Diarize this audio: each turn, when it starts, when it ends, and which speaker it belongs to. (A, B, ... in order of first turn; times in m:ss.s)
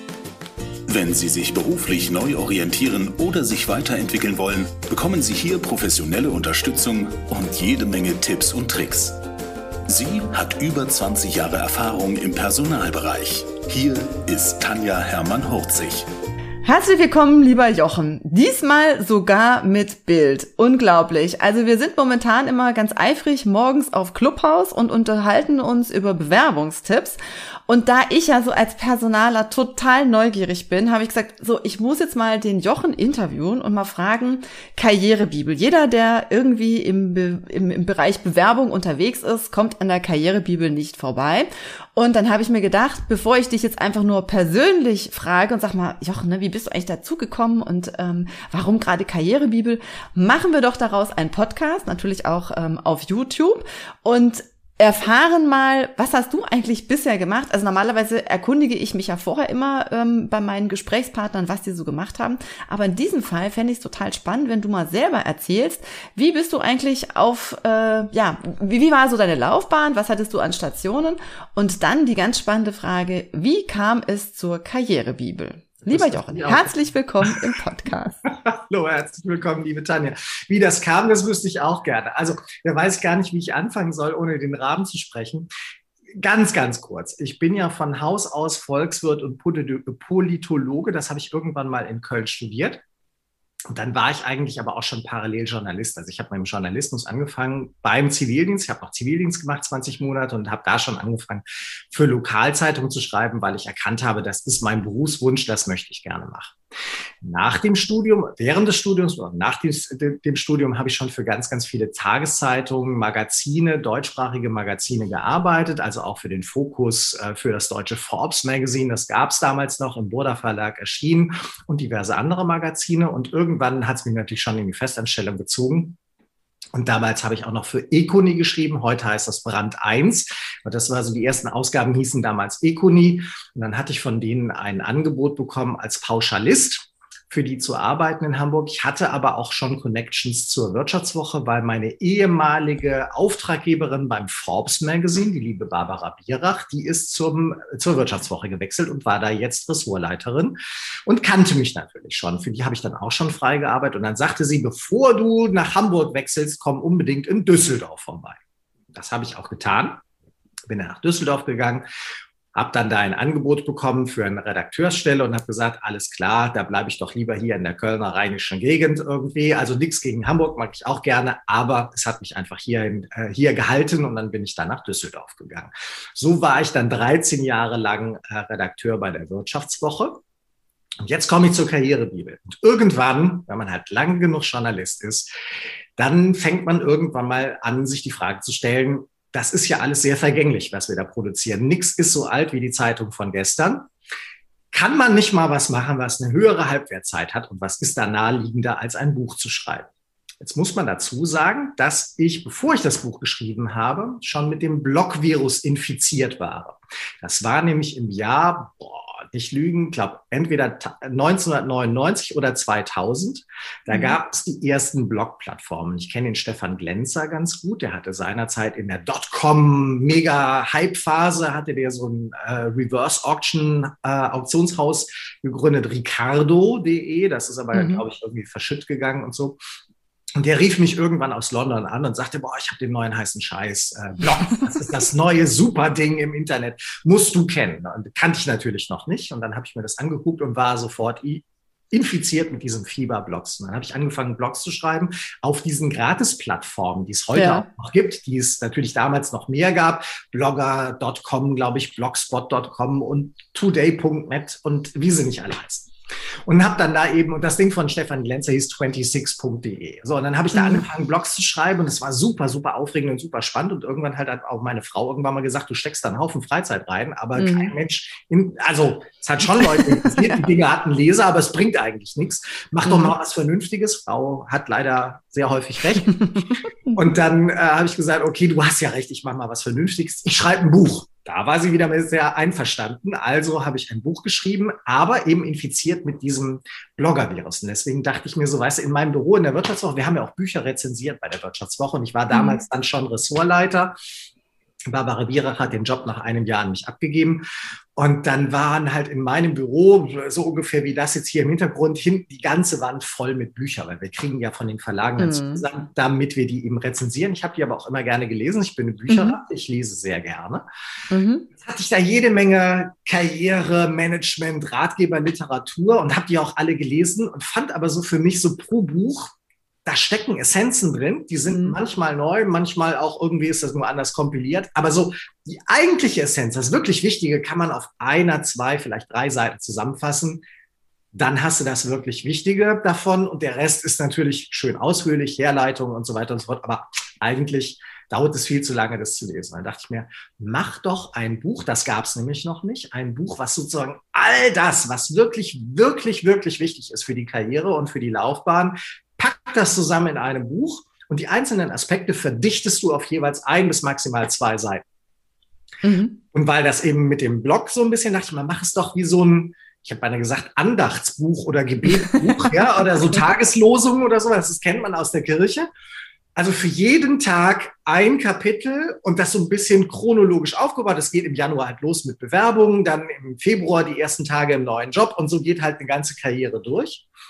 0:00.9-0:09.2 A
0:09.9-0:16.1 A
0:16.6-1:18.2 B
1:15.8-1:17.4 C
1:18.3-1:25.5 C
1:26.1-1:32.8 C
1:33.7-1:46.6 C
1:47.2-2:06.0 C
2:06.7-2:38.4 C
2:38.9-2:40.0 C
2:40.7-2:41.8 C
2:42.5-3:00.2 C
3:01.0-3:05.3 C
3:06.0-3:13.9 C
3:14.7-3:19.9 C
3:20.4-3:49.6 C
3:33.9-3:34.2 B
3:47.7-3:48.0 B
3:50.4-4:15.9 C
4:07.3-4:07.7 B
4:16.5-4:36.2 C
4:20.5-4:20.8 B
4:27.4-4:27.7 B
4:29.6-4:30.5 B
4:32.8-4:33.1 B
4:36.1-4:37.0 B
4:37.0-4:54.0 C
4:52.3-4:52.6 B
4:54.9-4:57.4 C
4:58.0-5:10.6 C
5:05.2-5:05.6 B
5:09.1-5:09.4 B
5:11.1-5:11.5 B
5:11.6-5:19.3 C
5:19.8-5:30.4 C
5:21.5-5:21.8 B
5:31.1-5:54.8 C
5:55.8-5:56.2 B
5:56.3-6:05.7 C
6:02.0-6:02.4 B
6:06.4-6:17.0 C